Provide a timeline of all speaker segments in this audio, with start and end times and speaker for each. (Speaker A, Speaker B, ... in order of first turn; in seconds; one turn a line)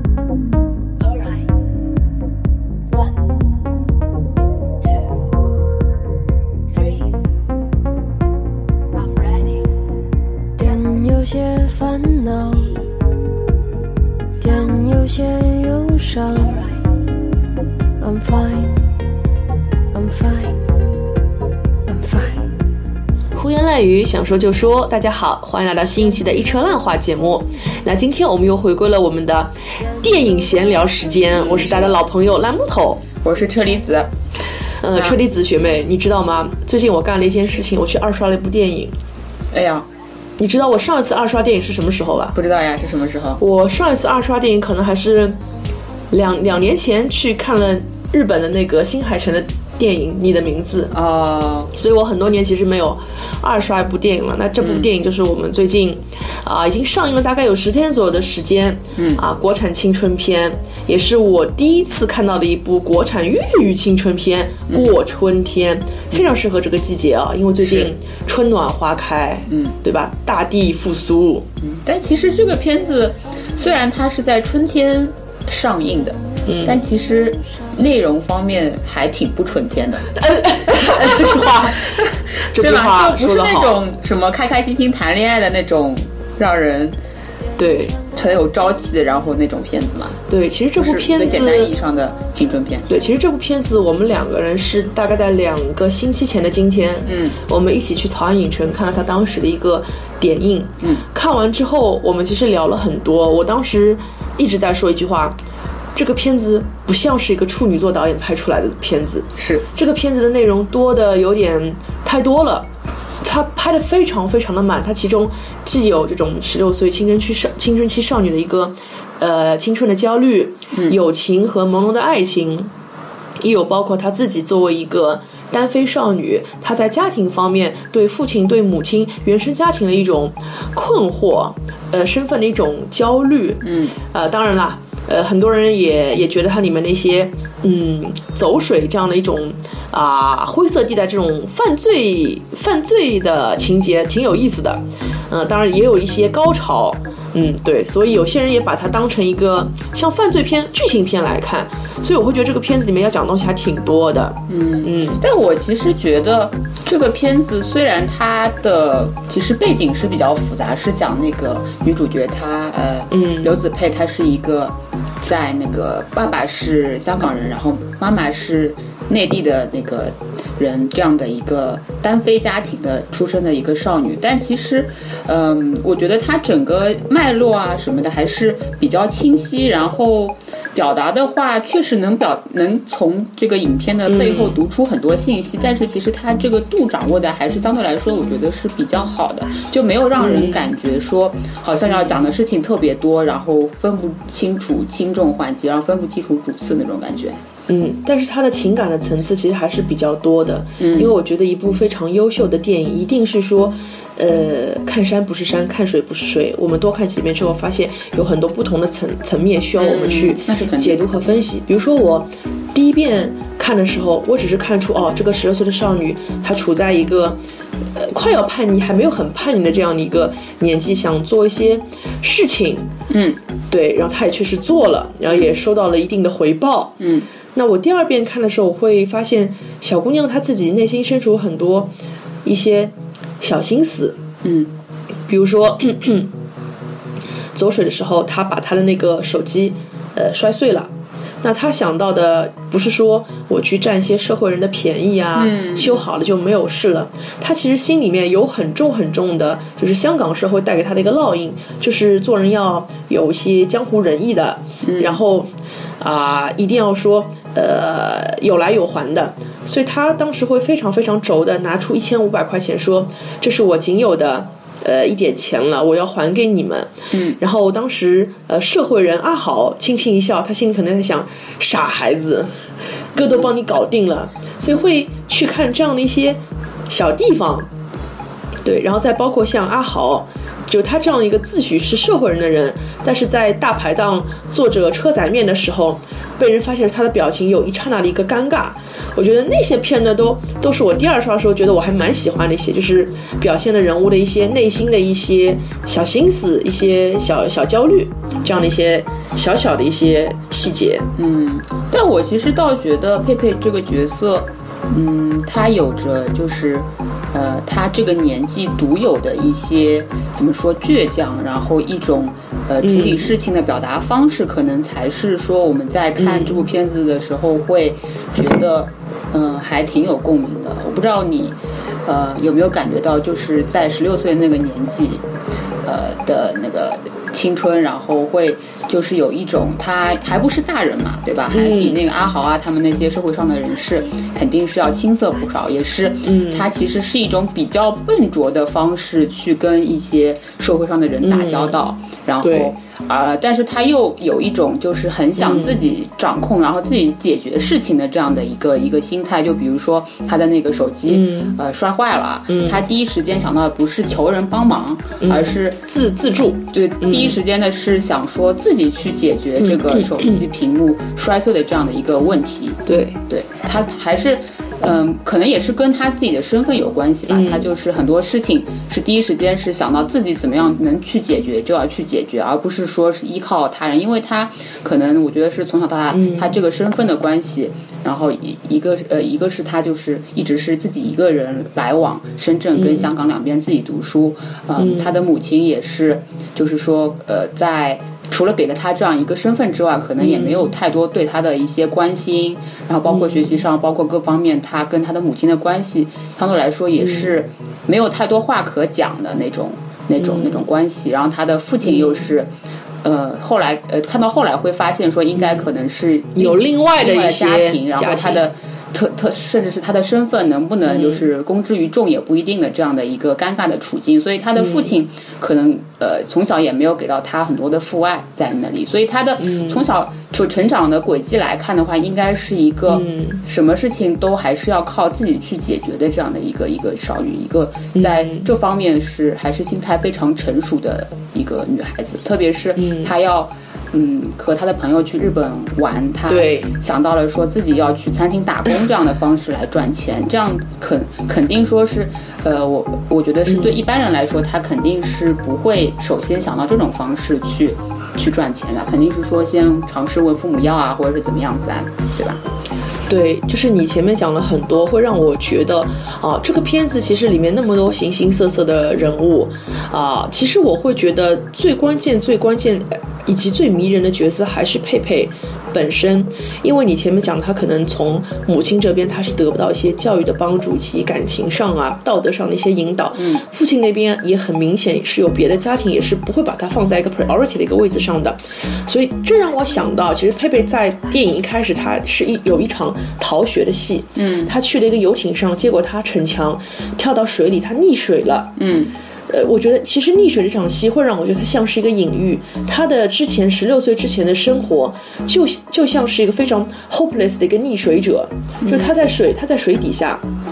Speaker A: 6.8-7.1
Speaker A: 9.1-9.6
Speaker A: 10.6-12.8
Speaker A: 14.4-16.8
Speaker A: 18.0-18.9
Speaker A: 19.9-20.6
Speaker A: 21.9-22.5
Speaker B: 23.3-33.0
Speaker C: 31.4-31.9
Speaker C: 33.1-34.1
Speaker B: 34.8-39.0
Speaker C: 34.9-35.2
Speaker C: 39.5-39.9
Speaker B: 40.4-42.4
Speaker C: 42.3-43.4
Speaker B: 43.4-45.4
Speaker B: 46.1-50.9
Speaker C: 50.9-51.7
Speaker B: 51.8-71.5
Speaker C: 54.6-54.9
Speaker C: 59.0-59.2
Speaker C: 67.6-67.9
Speaker C: 69.5-69.8
Speaker C: 71.6-87.0
Speaker B: 76.5-76.8
Speaker B: 80.2-82.0
Speaker B: 82.5-83.8
Speaker B: 87.6-88.0
Speaker C: 88.1-90.2
Speaker B: 90.3-91.7
Speaker C: 90.8-92.9
Speaker B: 92.9-105.4
Speaker C: 97.0-97.4
Speaker C: 100.8-101.0
Speaker B: 106.0-112.7
Speaker C: 109.3-109.7
Speaker B: 113.2-122.7
Speaker C: 120.7-121.0
Speaker B: 123.4-155.2
Speaker C: 133.6-134.0
Speaker C: 154.5-197.4
Speaker B: 163.1-163.6
Speaker B: 184.1-184.6
Speaker B: 190.2-190.6
Speaker B: 197.7-217.4
Speaker C: 200.8-201.2
Speaker C: 209.8-211.0
Speaker B: 217.9-222.9
Speaker C: 223.1-223.4
Speaker B: 223.7-227.0
Speaker C: 227.0-227.3
Speaker B: 227.5-231.9
Speaker B: 232.4-234.2
Speaker C: 234.4-234.7
Speaker B: 235.3-236.3
Speaker B: 237.5-240.9
Speaker B: 241.4-272.6
Speaker C: 245.3-246.1
Speaker C: 254.8-255.2
Speaker C: 267.1-267.4
Speaker B: 273.1-277.7
Speaker B: 278.6-301.1
Speaker C: 301.1-325.2
Speaker B: 312.8-313.3
Speaker B: 316.2-316.6
Speaker C: 325.8-355.8
Speaker B: 331.5-332.0
Speaker B: 336.3-336.7
Speaker B: 341.2-341.8
Speaker B: 342.4-342.7
Speaker B: 345.4-345.8
Speaker B: 351.1-351.6
Speaker B: 352.5-352.8
Speaker B: 355.2-357.4
Speaker C: 356.7-402.5
Speaker B: 359.6-360.4
Speaker B: 362.9-363.2
Speaker B: 367.3-367.7
Speaker B: 376.1-376.5
Speaker B: 382.8-383.1
Speaker B: 384.8-385.1
Speaker B: 390.2-390.7
Speaker B: 393.1-393.6
Speaker B: 400.2-400.6
Speaker C: 403.0-452.4
Speaker B: 406.4-408.4
Speaker B: 410.9-411.2
Speaker B: 414.6-414.9
Speaker B: 422.9-423.4
Speaker B: 427.9-428.5
Speaker B: 432.8-433.1
Speaker B: 436.3-436.7
Speaker B: 443.5-443.8
Speaker B: 453.1-488.5
Speaker C: 473.2-473.4
Speaker C: 484.2-484.5
Speaker C: 488.6-489.0
Speaker B: 489.3-500.2
Speaker C: 498.6-498.9